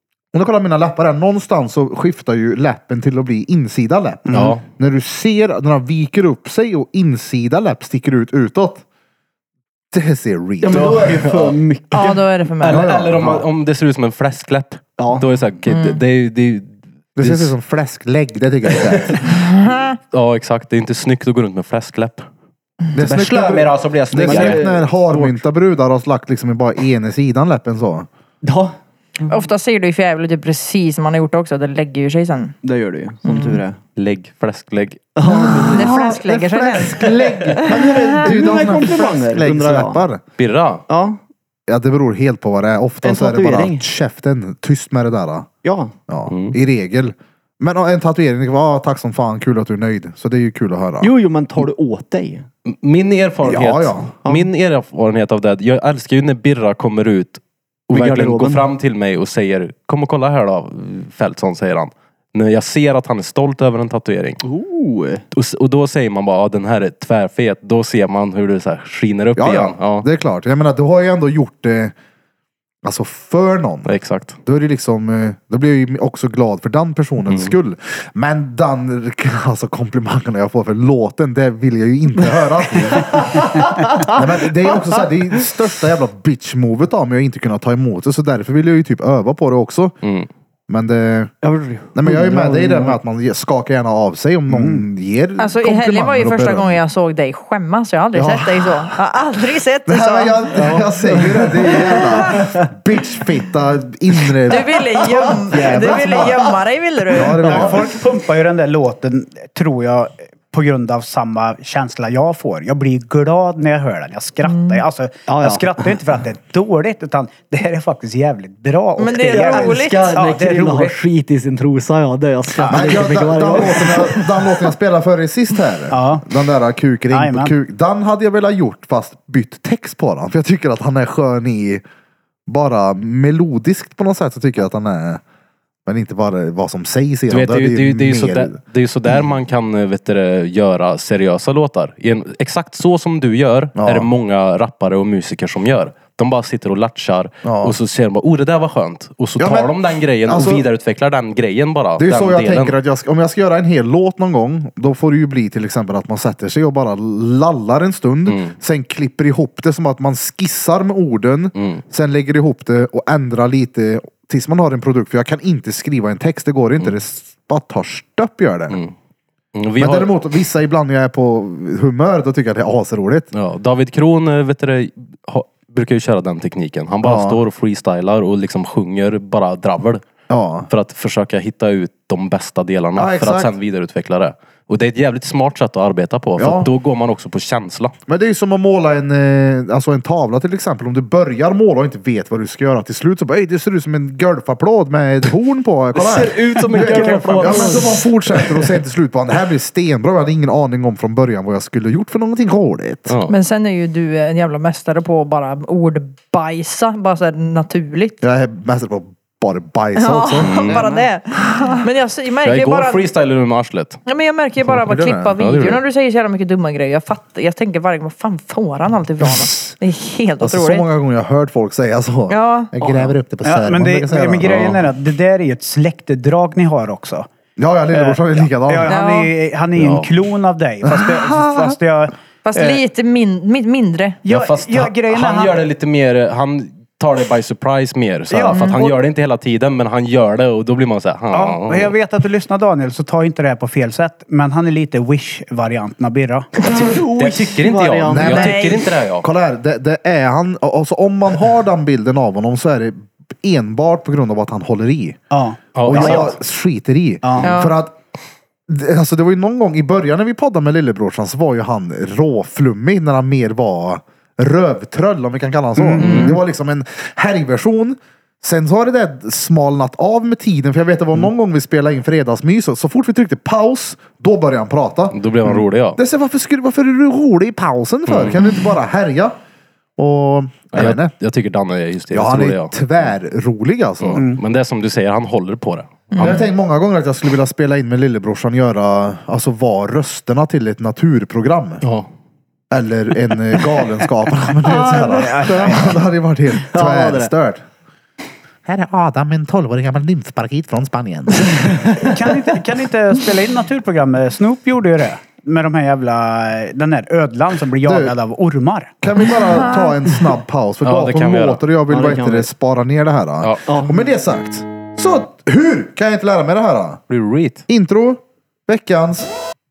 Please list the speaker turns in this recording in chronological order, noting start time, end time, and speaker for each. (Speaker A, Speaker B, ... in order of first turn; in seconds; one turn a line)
Speaker A: 0.3-8.8
Speaker B: 4.3-4.5
Speaker C: 4.3-4.6
Speaker A: 9.9-11.3
Speaker D: 10.6-12.2
Speaker C: 10.7-11.6
Speaker E: 11.9-12.9
Speaker C: 12.6-17.5
Speaker A: 12.7-13.4
Speaker D: 13.2-13.4
Speaker D: 15.0-15.3
Speaker E: 15.7-16.0
Speaker A: 17.2-19.3
Speaker C: 18.8-19.1
Speaker E: 19.2-20.0
Speaker C: 20.1-22.3
Speaker A: 22.9-28.1
Speaker C: 23.0-24.6
Speaker D: 23.1-23.3
Speaker D: 24.2-25.4
Speaker D: 28.4-29.3
Speaker E: 29.3-32.5
Speaker D: 32.6-33.8
Speaker E: 33.2-33.6
Speaker C: 34.0-35.1
Speaker D: 35.2-36.1
Speaker E: 35.5-37.2
Speaker A: 35.5-40.2
Speaker D: 37.6-40.0
Speaker C: 40.4-40.9
Speaker D: 40.9-41.2
Speaker A: 41.7-45.5
Speaker D: 43.0-43.9
Speaker D: 45.6-45.9
Speaker A: 46.1-51.1
Speaker C: 46.3-46.6
Speaker D: 51.0-52.5
Speaker C: 52.6-64.4
Speaker A: 53.4-54.1
Speaker D: 57.9-58.7
Speaker D: 64.4-65.2
Speaker C: 65.3-70.0
Speaker A: 69.4-71.9
Speaker A: 72.8-73.9
Speaker C: 73.8-74.4
Speaker A: 74.4-90.0
Speaker D: 83.0-84.2
Speaker C: 90.0-90.3
Speaker A: 90.7-91.3
Speaker D: 91.4-93.0
Speaker A: 91.9-96.8
Speaker B: 94.5-94.8
Speaker E: 95.4-100.7
Speaker A: 98.1-99.0
Speaker A: 99.9-106.5
Speaker D: 100.6-102.4
Speaker E: 104.5-107.8
Speaker D: 105.5-106.3
Speaker A: 107.1-107.9
Speaker B: 107.4-121.0
Speaker E: 114.4-114.8
Speaker D: 115.3-116.0
Speaker E: 119.0-120.2
Speaker D: 119.3-124.5
Speaker B: 122.5-122.9
Speaker A: 122.7-131.8
Speaker B: 125.9-126.2
Speaker B: 127.1-127.5
Speaker A: 132.5-135.2
Speaker A: 135.8-138.6
Speaker C: 137.3-152.8
Speaker A: 143.8-144.1
Speaker A: 147.4-147.7
Speaker A: 149.4-149.7
Speaker A: 150.3-150.7
Speaker A: 152.0-168.8
Speaker C: 158.3-158.6
Speaker C: 161.6-161.8
Speaker C: 169.6-170.1
Speaker A: 169.8-173.3
Speaker C: 173.3-180.1
Speaker A: 177.0-177.4
Speaker A: 180.3-180.7
Speaker C: 180.7-187.9
Speaker A: 182.9-183.5
Speaker A: 186.4-186.7
Speaker A: 188.1-203.2
Speaker D: 195.9-198.0
Speaker C: 196.2-198.0
Speaker C: 203.1-203.3
Speaker E: 203.3-208.2
Speaker A: 208.2-210.9
Speaker E: 209.9-213.1
Speaker C: 210.4-210.9
Speaker C: 212.4-214.0
Speaker E: 214.1-220.9
Speaker A: 214.7-215.3
Speaker C: 215.4-215.8
Speaker A: 219.2-219.7
Speaker A: 220.4-224.7
Speaker E: 222.3-223.1
Speaker B: 223.4-227.3
Speaker C: 224.4-224.8
Speaker A: 227.6-228.9
Speaker B: 227.9-232.8
Speaker E: 228.9-229.3
Speaker C: 229.8-230.1
Speaker A: 230.9-231.8
Speaker E: 232.4-234.2
Speaker B: 234.2-235.6
Speaker C: 234.3-241.9
Speaker B: 238.3-238.9
Speaker E: 238.5-238.8
Speaker B: 241.3-246.5
Speaker D: 246.6-248.6
Speaker C: 246.7-249.3
Speaker A: 248.1-255.2
Speaker E: 248.3-248.8
Speaker B: 255.3-256.3
Speaker C: 255.8-256.3
Speaker A: 255.8-257.9
Speaker B: 257.2-257.5
Speaker E: 257.4-257.7
Speaker A: 258.7-279.4
Speaker B: 265.8-266.3
Speaker C: 266.0-266.4
Speaker C: 275.1-276.0
Speaker C: 278.1-278.4
Speaker A: 280.0-281.1
Speaker C: 280.7-282.9
Speaker A: 282.1-284.2
Speaker C: 284.0-286.4
Speaker E: 286.1-286.4
Speaker A: 286.2-291.8
Speaker A: 292.7-297.6
Speaker B: 294.6-296.0
Speaker D: 296.6-297.3
Speaker A: 298.6-301.8
Speaker B: 302.1-308.9
Speaker A: 307.8-308.1
Speaker A: 309.0-317.0
Speaker E: 309.3-309.9
Speaker C: 310.8-311.6
Speaker D: 311.9-312.5
Speaker D: 313.6-314.0
Speaker C: 317.1-317.6
Speaker A: 317.7-319.3